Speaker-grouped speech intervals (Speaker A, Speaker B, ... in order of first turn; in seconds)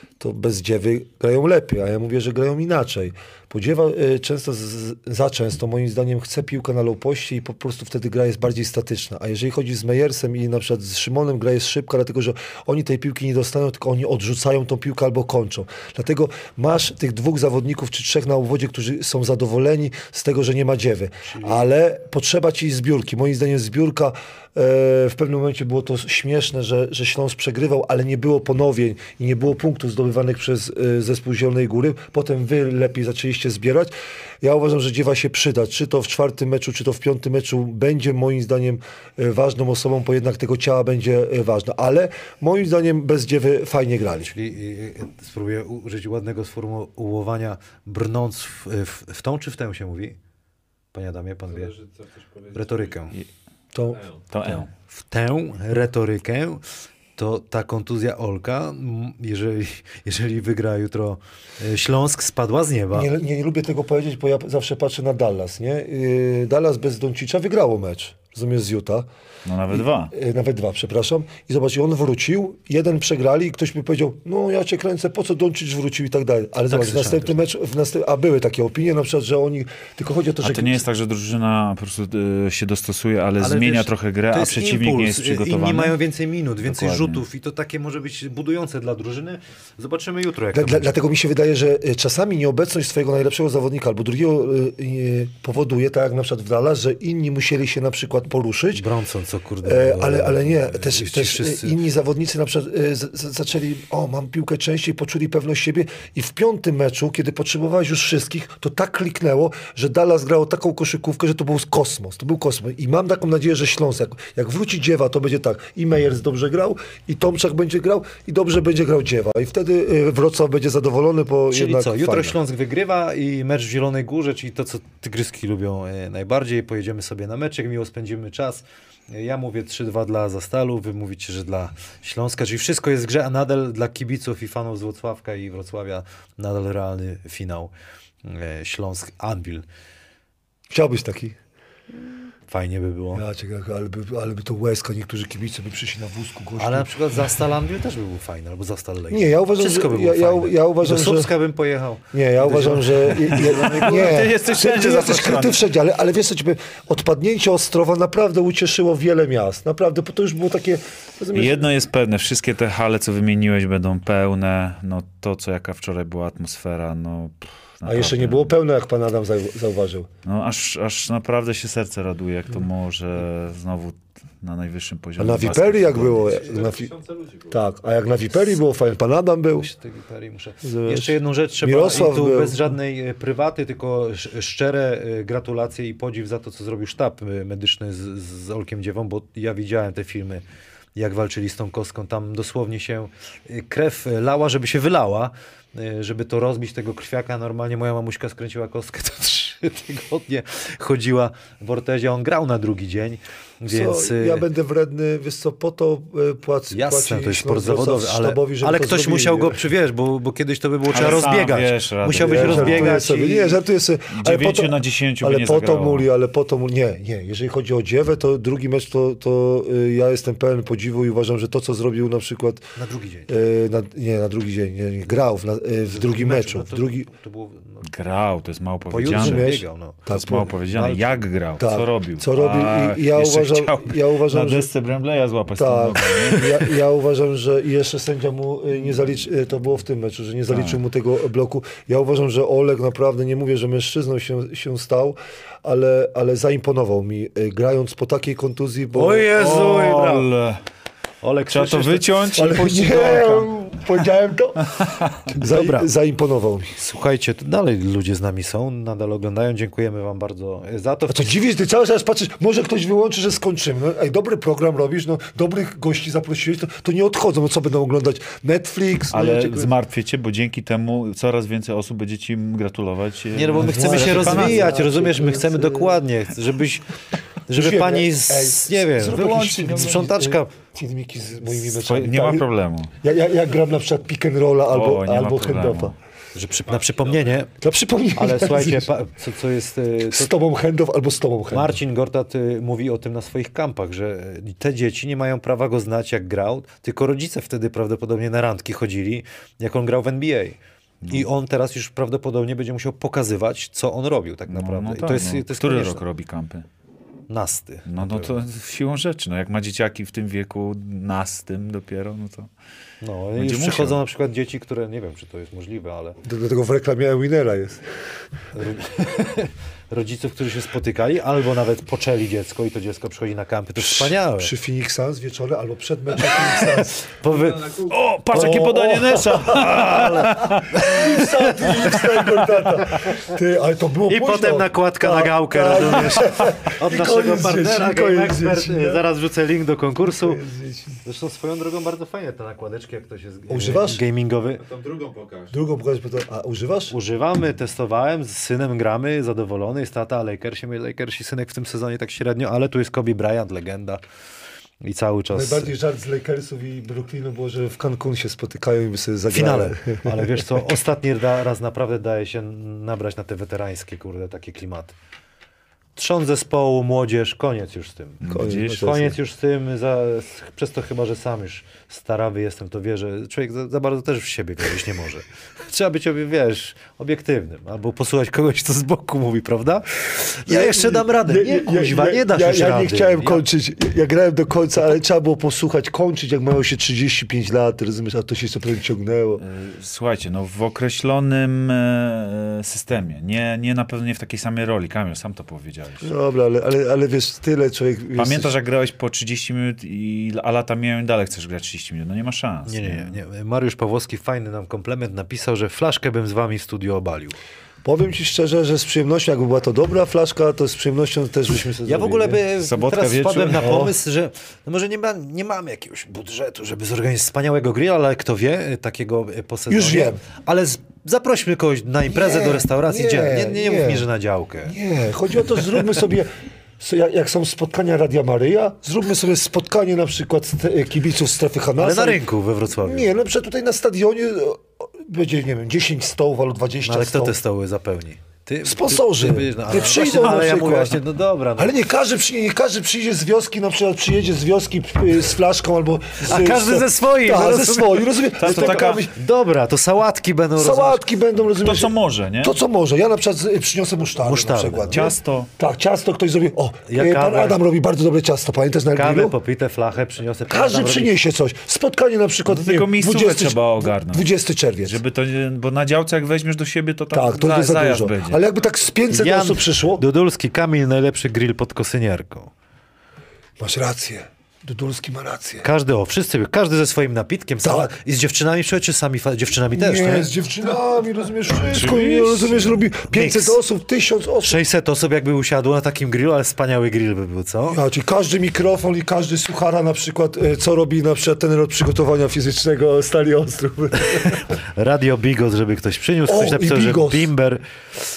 Speaker A: 0.2-44.3, 53.7-54.0, 62.9-69.1, 69.7-80.8, 90.5-98.8, 99.6-122.3, 140.7-141.3, 143.1-146.9, 149.1-151.3, 152.1-161.7, 167.8-170.1, 175.2-176.9, 177.5-179.7, 180.6-182.6, 203.7-209.6, 212.1-222.7, 223.3-227.1, 229.1-230.6, 231.6-234.7, 235.6-249.3, 252.3-256.8, 261.1-269.7, 273.6-276.0, 277.5-282.5, 283.0-285.9, 287.6-288.9, 290.1-291.8, 316.2-317.8, 323.8-327.1, 328.3-339.0, 340.2-341.0, 343.5-344.0, 345.5-346.9, 355.3-360.7, 368.3-369.1, 380.5-389.4, 396.0-398.5, 407.8-412.4, 413.6-413.9, 419.7-420.2, 422.1-424.1, 424.7-432.2, 432.8-437.3, 438.6-441.0, 441.6-449.1, 450.6-459.4, 460.5-465.0, 467.1-470.0, 473.6-475.6, 477.6-477.9, 479.7-484.6, 487.7-494.4, 496.2-497.3
Speaker B: 21.2-21.7, 44.2-50.2, 50.9-51.7, 52.5-53.2, 54.9-56.6, 57.1-63.1, 76.7-77.4, 83.4-90.9, 98.7-101.8, 121.5-137.7, 138.2-139.6, 142.5-143.2, 146.6-154.0, 179.6-190.4, 190.9-204.4, 206.7-213.6, 222.8-223.3, 225.8-227.9, 228.9-230.0, 230.6-231.0, 248.9-250.3, 251.2-252.0, 255.3-255.9, 256.8-261.4, 273.3-276.9, 277.5-280.5, 286.3-287.5, 288.1-290.3, 291.5-300.6, 301.1-306.0, 307.3-308.4, 313.0-316.2, 318.5-324.5, 326.5-327.8, 329.5-332.0, 334.1-340.4, 341.0-344.6, 346.9-354.0, 354.8-355.7, 359.3-364.9, 365.9-383.4, 402.7-407.4, 411.8-424.8, 431.8-433.1, 436.8-441.7, 446.2-451.1, 454.1-455.1, 456.9-457.6, 458.9-461.2, 469.1-472.5, 475.6-480.3, 483.1-483.6, 484.4-487.8, 494.0-497.6
Speaker C: 51.5-53.1, 53.9-54.3, 176.1-177.6, 286.6-287.5, 327.2-328.0, 344.6-345.6
Speaker D: 54.3-54.7, 69.4-70.1, 80.4-86.0, 86.6-87.2, 153.3-155.6, 161.3-168.5, 170.2-176.4, 210.9-213.0, 214.1-216.1, 227.8-236.4, 240.5-240.8, 249.3-250.6, 251.5-253.5, 269.1-274.7, 279.1-280.0, 281.7-282.9, 284.7-285.9, 304.5-306.6, 307.9-312.5, 313.4-314.0, 327.9-331.2, 368.2-369.1, 389.4-396.1, 398.1-403.2, 412.6-413.8, 448.4-449.1, 451.6-452.6, 454.9-455.5, 462.5-464.3, 464.8-468.4, 481.6-482.8